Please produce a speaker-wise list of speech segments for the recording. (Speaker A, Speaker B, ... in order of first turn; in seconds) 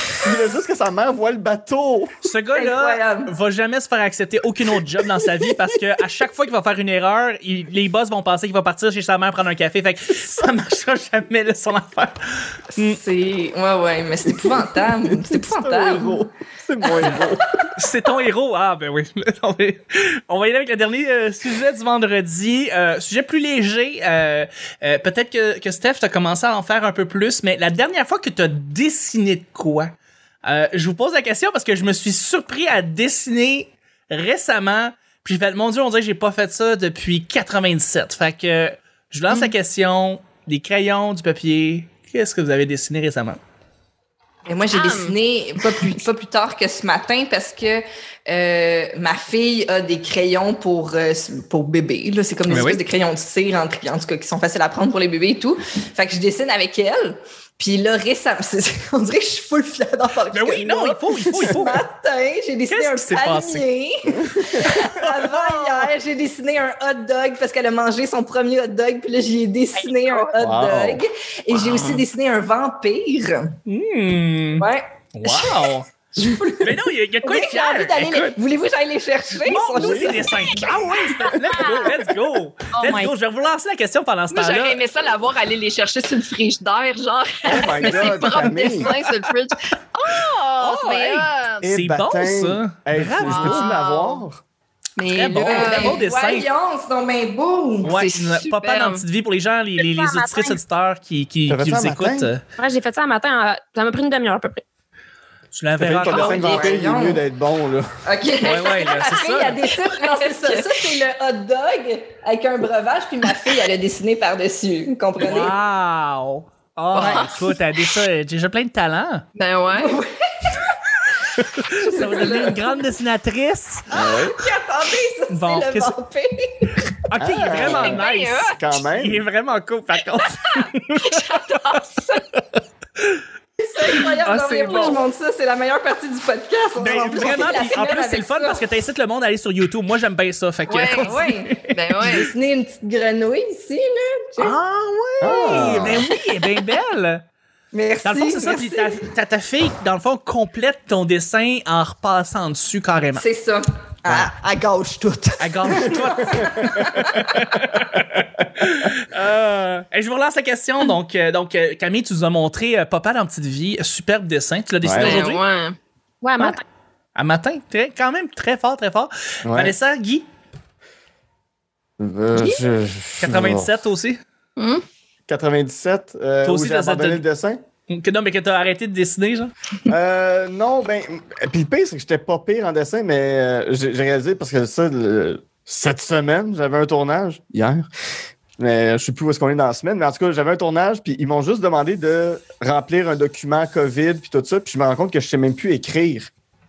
Speaker A: 0.2-2.1, 14.4-17.7, 70.4-71.0, 79.7-80.2, 87.5-88.9, 91.6-94.4, 101.5-102.3, 105.8-107.9, 123.9-124.4, 127.2-129.2, 145.2-146.1, 154.0-154.3, 156.3-157.1, 164.8-165.2, 169.4-169.7, 172.0-173.7, 175.3-177.6, 179.9-187.9, 188.6-196.3
Speaker B: 2.2-13.0, 17.8-43.4, 52.5-52.8, 60.3-61.8, 62.7-63.6, 64.7-65.1, 71.5-72.0, 73.7-75.9, 76.6-78.4, 79.4-84.8, 87.9-89.1, 90.6-93.7, 95.1-96.5, 97.8-102.4, 105.5-106.7, 108.4-109.6, 115.2-119.2, 121.4-123.9, 125.3-125.9, 127.1-132.4, 133.0-133.2, 133.9-135.0, 136.8-142.3, 144.4-147.2, 148.0-153.2, 155.4-165.4, 167.2-170.2, 173.2-174.2, 176.4-177.2, 177.9-179.5
Speaker C: 2.5-3.3, 12.7-16.2, 16.9-17.6, 44.5-73.6, 74.6-81.9, 95.5-97.9, 106.0-107.2, 108.0-115.5, 117.0-117.5, 119.8-122.8, 123.9-126.9, 133.6-138.6, 140.7-144.6, 145.2-146.4, 147.7-149.1, 153.2-157.5
Speaker D: 44.7-45.1, 84.3-91.6, 93.2-94.2, 95.0-96.0, 97.9-99.0, 109.9-110.9, 116.9-117.5, 119.3-120.0, 127.5-128.6, 131.1-132.2, 134.7-134.9, 140.7-142.3, 164.9-165.8, 174.6-174.8
Speaker E: 69.8-70.3, 81.5-81.9, 82.7-83.1, 99.8-100.6, 102.6-104.6, 166.2-166.6